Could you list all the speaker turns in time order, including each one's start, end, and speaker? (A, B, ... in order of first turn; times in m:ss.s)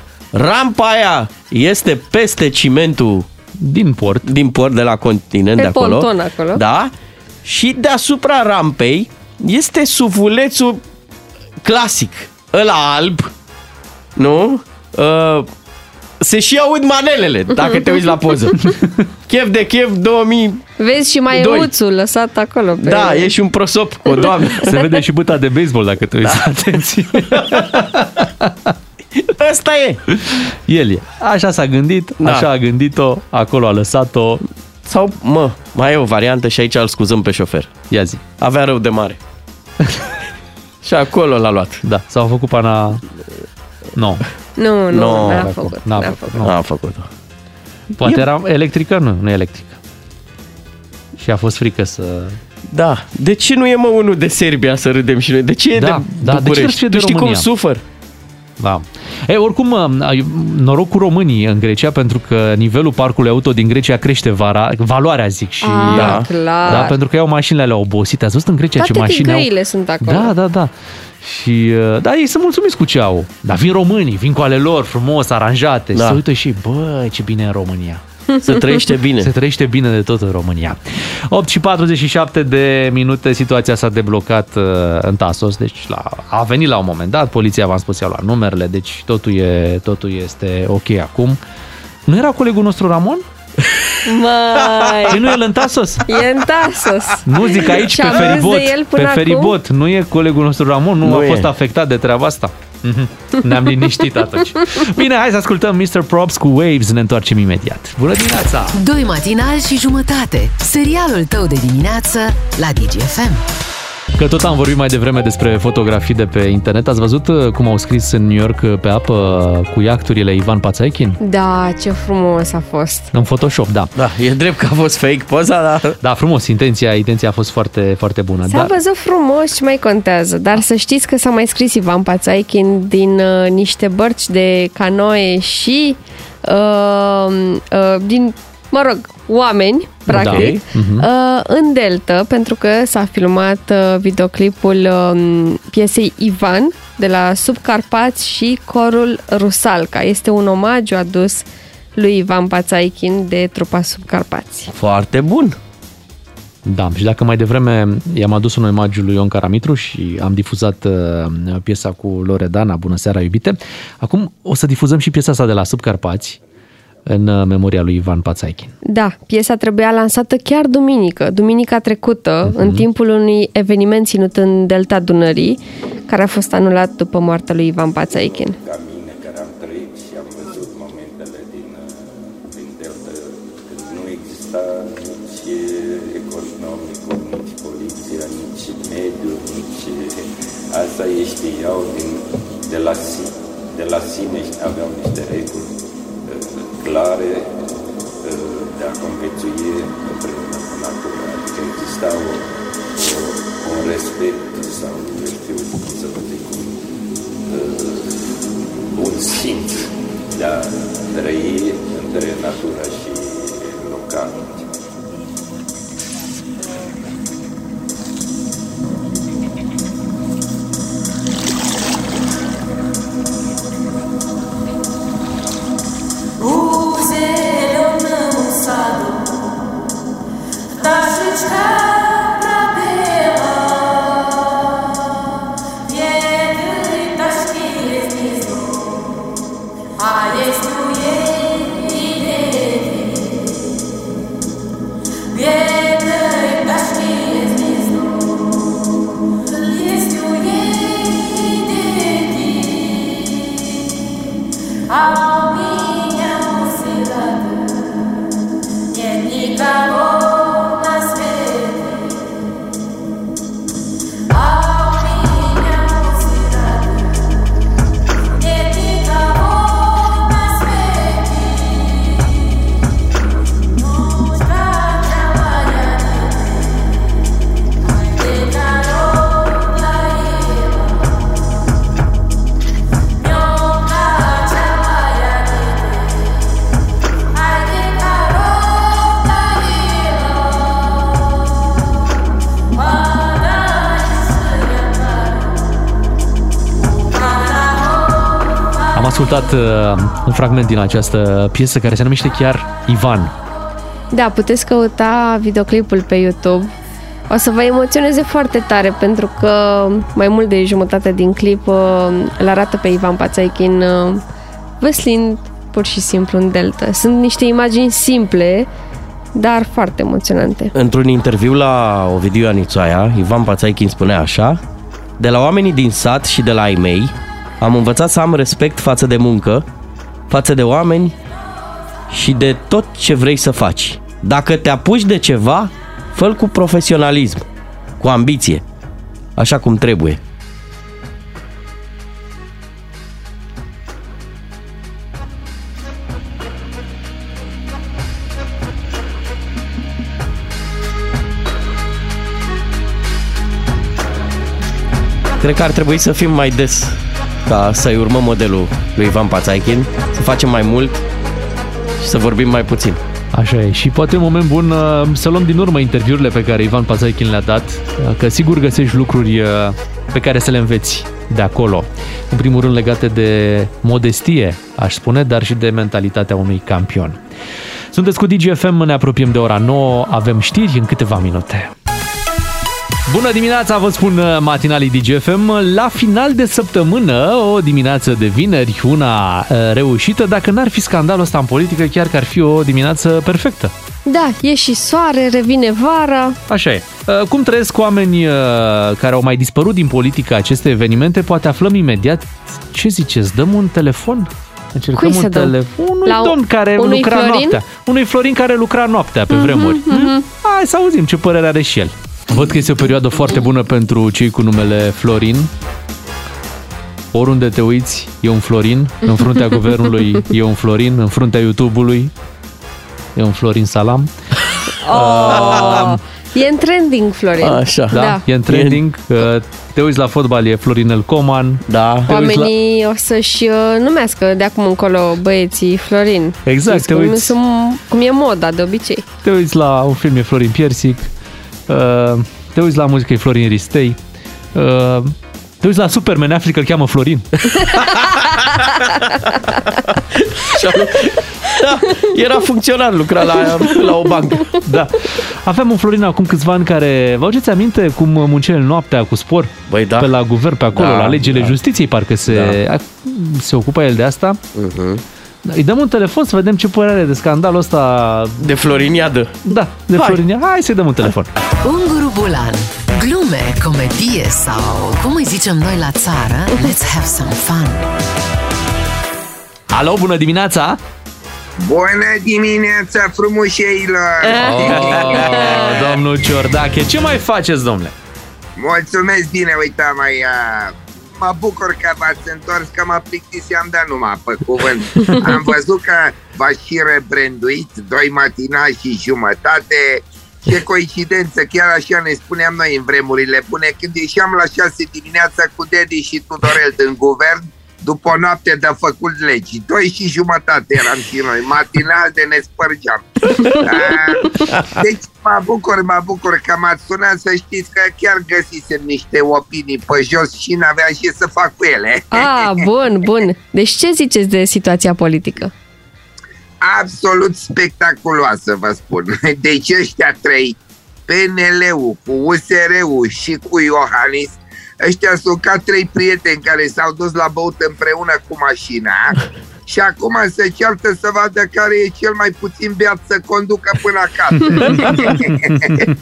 0:00.3-0:03.3 A
0:03.6-0:04.3 B
0:04.2-0:06.9 A
0:05.6-0:06.6 C
0:07.4-0:10.8 A
0:11.6-0:13.3 A
0:14.2-0:15.5 A
0:16.2-0:18.7 A
0:19.3-0:20.6 A
0:20.8-0:23.3 C
0:21.3-0:21.7 A
0:22.8-0:24.8 A
0:24.5-0:28.7 B
0:27.4-0:27.6 A
0:29.2-0:30.0 A
0:30.2-0:34.4 B
0:32.2-0:32.5 A
0:34.8-0:37.7 A
0:37.9-0:38.2 B
0:38.4-0:39.2 A
0:40.8-0:41.8 A
0:41.8-0:43.0 B
0:44.0-0:44.2 B
0:44.6-0:46.4 C
0:44.9-0:45.5 A
0:45.3-0:46.6 B
0:46.4-0:47.1 A
0:48.0-0:49.8 B
0:51.2-0:52.4 B
0:52.7-0:57.8 A
0:55.8-0:57.5 B
0:58.6-1:09.5 B
1:05.6-1:07.0 C
1:05.8-1:06.8 A
1:08.8-1:10.3 C
1:10.0-1:18.0 B
1:15.9-1:16.2 A
1:18.4-1:19.3 A
1:19.2-1:31.4 B
1:32.1-1:33.2 B
1:34.0-1:35.2 C
1:35.1-1:36.1 B
1:36.0-1:39.5 C
1:37.2-1:48.8 B
1:41.0-1:41.5 A
1:48.7-1:53.4 D
1:54.2-2:01.2 B
2:01.2-2:03.1 C
2:03.1-2:03.9 B
2:04.0-2:06.0 A
2:06.0-2:08.7 B
2:08.5-2:34.7 C
2:20.1-2:21.0 B
2:20.1-2:20.6 A
2:34.7-2:35.6 A
2:36.6-2:46.4 B
2:47.0-2:48.7 B
2:48.8-2:58.6 C
2:52.4-2:52.8 B
2:58.1-3:17.6 E
3:18.2-3:26.8 E
3:27.5-3:28.2 E
3:28.9-3:34.6 E
3:46.4-3:49.2 F
3:50.8-3:53.9 F
3:55.9-3:58.8 F
4:00.0-4:03.3 F
4:05.3-4:08.4 F
4:09.6-4:13.0 F
4:14.9-4:17.6 F
4:18.9-4:22.1 F
4:24.3-4:26.9 F
4:28.4-4:31.6 F
4:33.9-4:36.4 F
4:37.9-4:40.9 F
4:43.2-4:46.1 F
4:47.4-4:50.6 F
4:52.8-4:55.3 F
4:57.1-4:57.8 F
4:58.9-5:03.3 B
5:04.1-5:06.7 C
5:07.3-5:14.2 C
5:14.8-5:18.7 C
5:19.3-5:20.7 C
5:20.7-5:24.6 A
5:25.2-5:29.6 A
5:30.3-5:31.2 A
5:32.1-5:37.4 A
5:38.0-5:38.6 A
5:39.4-5:40.2 A
5:55.4-6:01.0 A
6:02.0-6:03.0 A
6:03.3-6:17.2 B
6:17.9-6:21.7 B
6:23.1-6:33.7 B
6:34.0-6:36.4 C
6:36.5-6:55.5 B
6:44.9-6:45.5 C
6:46.0-6:47.6 C
6:49.3-6:50.2 C
6:57.1-7:02.1 B
7:03.2-7:04.1 B
7:04.8-7:08.2 C
7:04.9-7:06.0 B
7:05.4-7:05.8 A
7:07.4-7:08.8 A
7:07.9-7:12.5 B
7:11.7-7:12.1 A
7:12.1-7:19.0 C
7:16.4-7:17.3 B
7:19.2-7:21.1 B
7:21.7-7:24.0 B
7:24.5-7:27.5 B
7:27.6-7:29.0 A
7:29.9-7:34.5 A
7:34.6-7:44.4 B
7:39.7-7:40.1 A
7:40.7-7:41.6 A
7:42.3-7:42.6 A
7:44.5-7:45.0 A
7:45.4-7:48.6 B
7:48.4-7:50.2 A
7:49.5-7:51.3 B
7:51.6-7:57.9 D
7:59.7-8:00.8 B
8:01.6-8:06.0 G
8:04.2-8:05.8 C
8:04.4-8:07.9 B
8:08.6-8:42.6 G
8:42.1-8:45.5 C
8:46.6-9:05.9 G